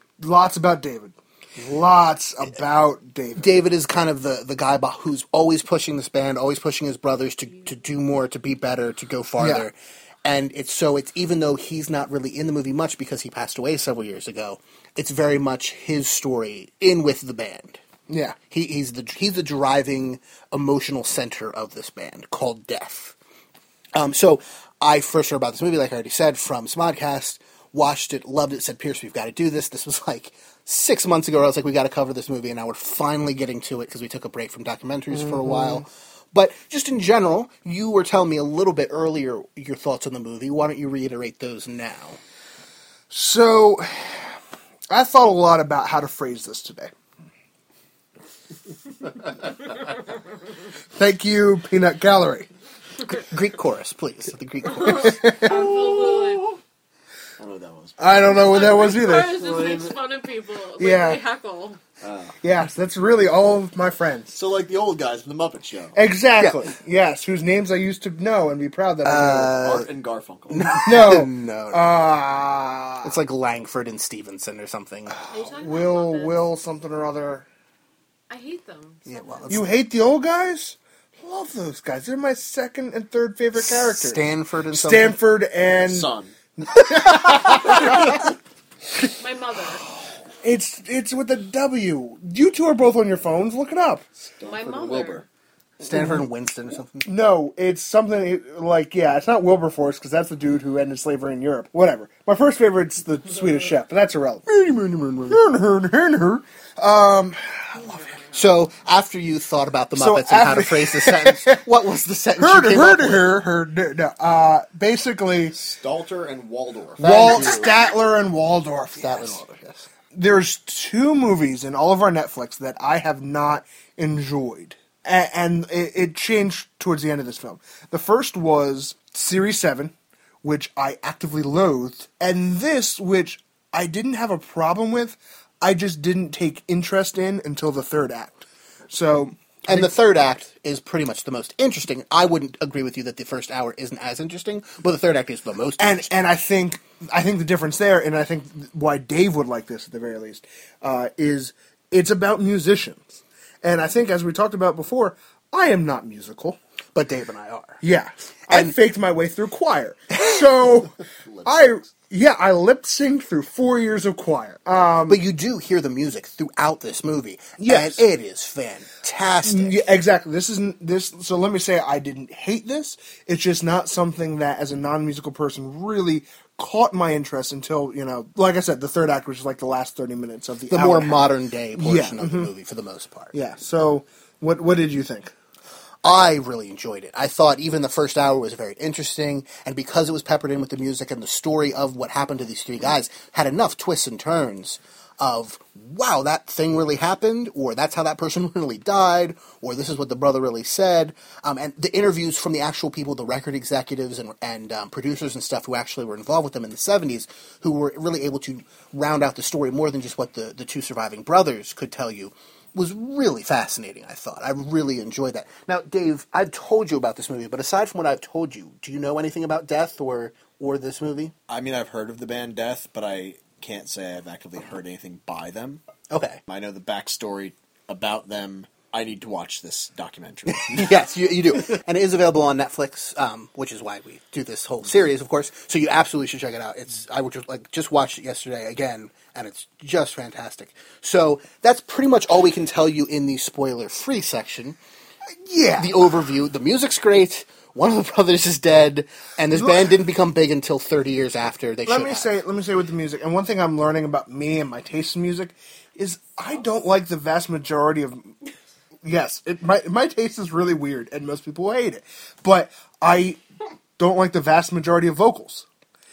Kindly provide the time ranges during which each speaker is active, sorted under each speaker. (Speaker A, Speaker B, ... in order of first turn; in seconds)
Speaker A: 0.2-3.5, 9.4-9.7, 18.1-18.4, 35.1-35.9, 43.1-44.3, 44.9-46.9, 51.0-52.5, 54.9-55.8, 58.0-59.4, 60.8-61.2, 62.4-64.4, 66.0-69.7, 70.8-73.2, 75.1-77.5, 79.5-88.2, 90.4-94.0, 95.9-96.2, 97.0-104.5, 105.3-107.9, 110.0-111.6, 112.4-115.5, 117.0-119.4, 120.1-139.9, 145.8-156.6, 157.8-160.9, 161.4-165.2, 167.6-168.0, 169.4-182.5, 183.3-185.3, 245.4-245.9, 249.5-249.9, 251.9-258.3, 259.0-263.4, 264.0-265.7
Speaker B: 3.4-17.8, 18.5-23.2, 23.9-42.2, 53.2-55.3, 66.4-66.7, 69.0-69.9, 70.5-71.9, 73.0-75.2, 79.1-79.7, 83.6-85.2, 95.8-97.1, 104.5-105.4, 108.3-113.4, 117.0-117.7, 119.0-119.9, 139.7-146.1, 156.9-157.8, 158.5-158.8, 165.1-169.9, 180.7-183.3, 186.0-221.3, 226.1-226.4, 230.5-244.8, 245.8-252.3
Speaker C: 54.7-56.5, 58.5-61.8, 75.3-76.4, 78.3-79.5, 89.2-89.9, 94.4-95.2
Speaker D: 57.4-60.0, 62.0-62.4, 64.3-66.0, 69.5-70.8, 85.7-86.3, 94.4-95.3, 115.5-117.7, 161.3-161.5, 221.5-225.8, 226.5-230.9